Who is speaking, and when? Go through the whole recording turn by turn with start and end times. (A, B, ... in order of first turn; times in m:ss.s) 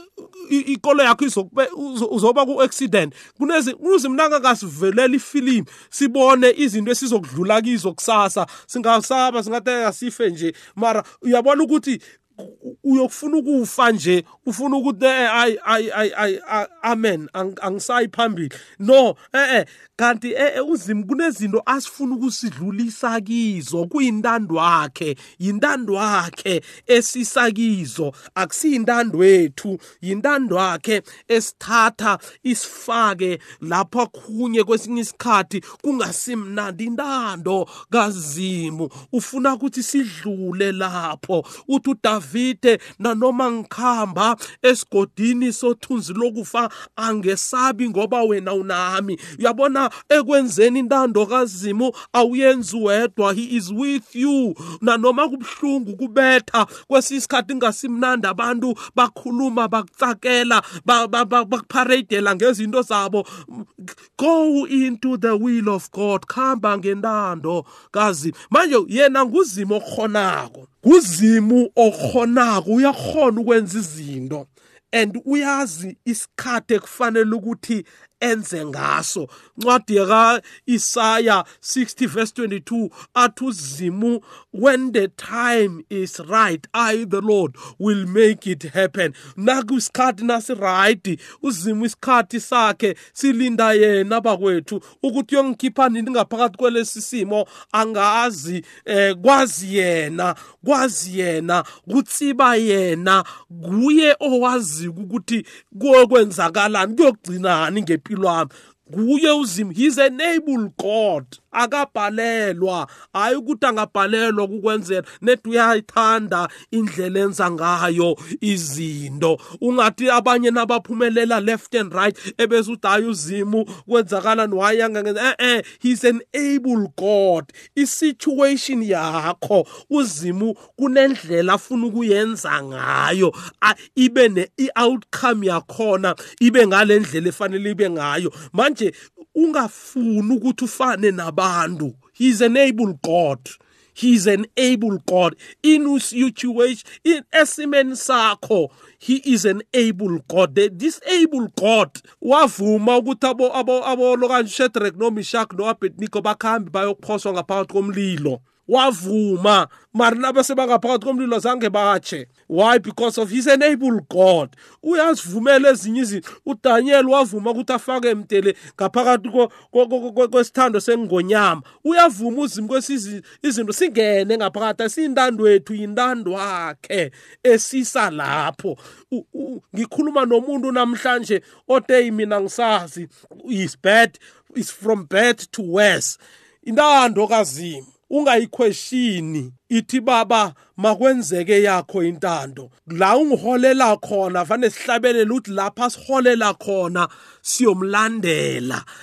0:00.2-3:18.8 A